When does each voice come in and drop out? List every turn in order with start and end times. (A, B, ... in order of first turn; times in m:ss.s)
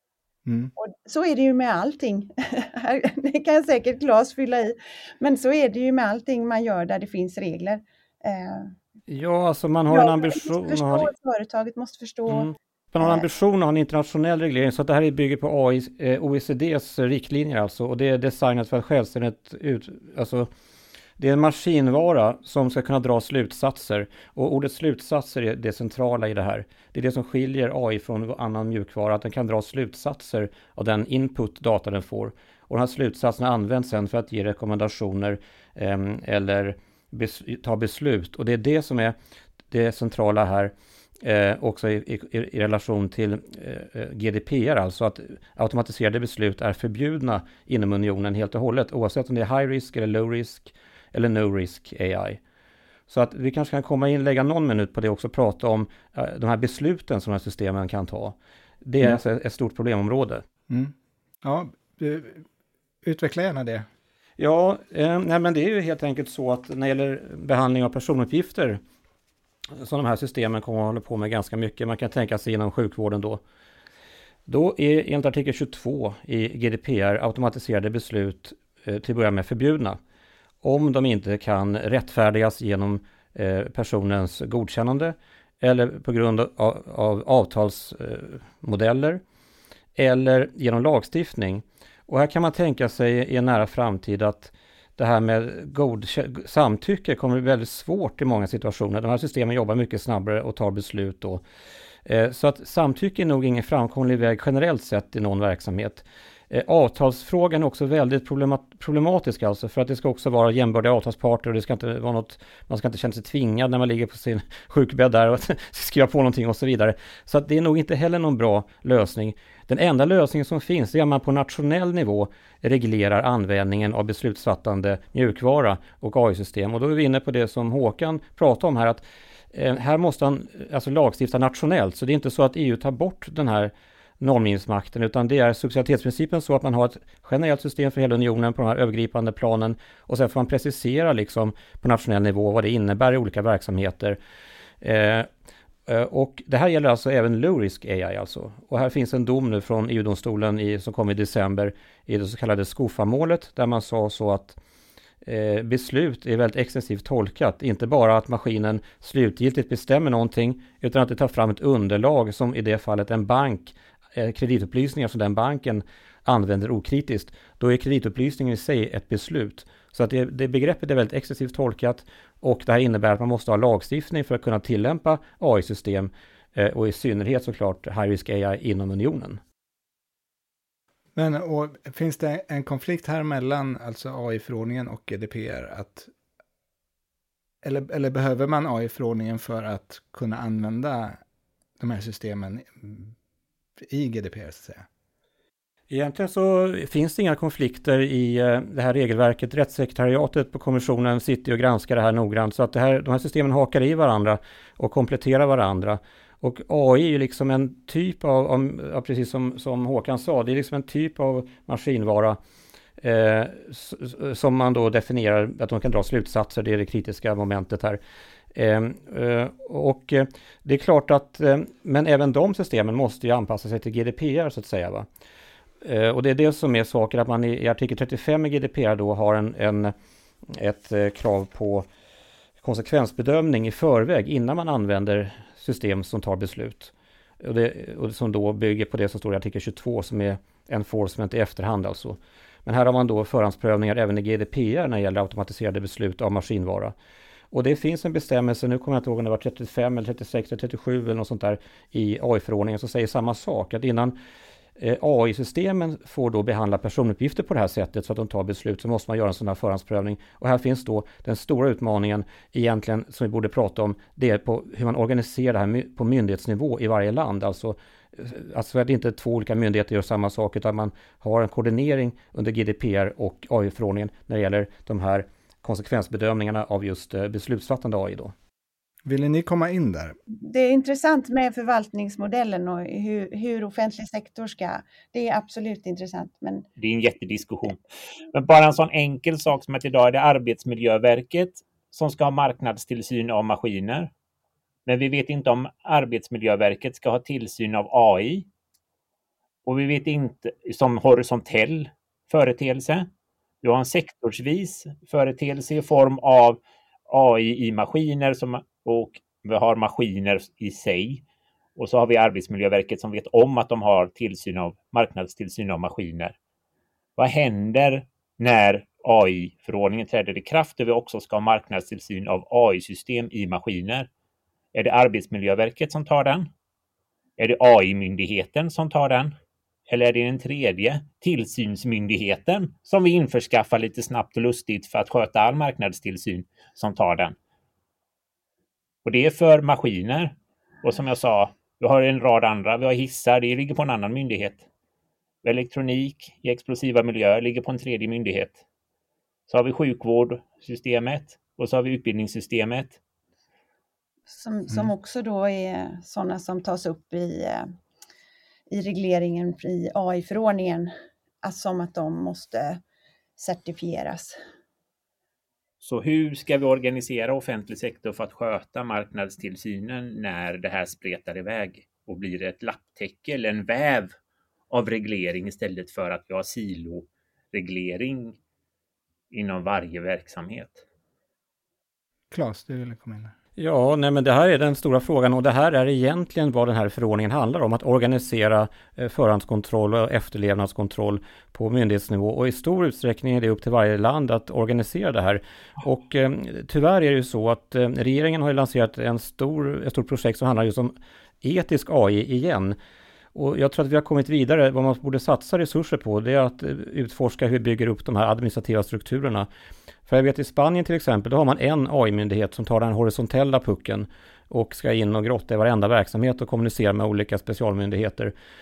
0:00.5-0:00.7 A
0:00.8-0:08.8 B
0:09.1-0:11.1 C
0:09.9-0:13.3 B
0:12.3-0:20.5 C
0:21.2-0:39.2 C
0:39.7-0:52.4 C
0:53.1-1:00.4 C
1:00.7-1:02.4 A
1:03.0-1:03.9 A
1:04.4-1:08.8 C
1:09.8-1:13.4 C
1:14.5-1:20.0 C
1:20.6-1:29.2 C
1:30.0-1:41.4 C
1:42.0-2:09.0 C
2:09.5-2:24.2 C
2:24.8-2:25.3 C
2:25.9-2:34.6 C
2:35.2-2:59.4 C
3:01.2-3:06.1 A
3:07.6-3:11.2 A
3:11.8-3:13.1 A
3:13.8-3:14.9 A
3:15.9-3:32.4 C
3:33.0-3:38.0 C
3:38.6-3:45.1 C
3:45.8-3:49.9 C
3:50.5-3:51.9 C
3:52.6-4:06.9 C
4:07.5-4:14.2 C
4:14.8-4:38.3 C
4:39.0-4:40.2 A
4:40.3-4:46.7 B
4:46.8-4:47.8 D
4:48.3-4:54.1 D
4:54.9-4:58.5 D
4:59.6-5:03.1 D
5:03.6-5:11.2 D
5:11.8-5:16.4 D
5:17.2-5:24.1 D
5:24.7-5:26.5 D
5:27.4-5:29.3 D
5:29.9-5:37.4 D
5:39.0-5:44.6 D
5:45.4-5:48.6 D
5:49.5-5:53.0 D
5:54.3-5:57.7 B
5:58.7-6:00.9 B
6:01.4-6:02.8 B
6:03.4-6:04.4 B
6:05.8-6:14.1 D
6:14.7-6:18.4 D
6:19.3-6:20.8 D
6:22.3-6:23.3 A
6:23.6-6:42.8 C
6:43.3-6:49.5 C
6:50.1-6:58.3 C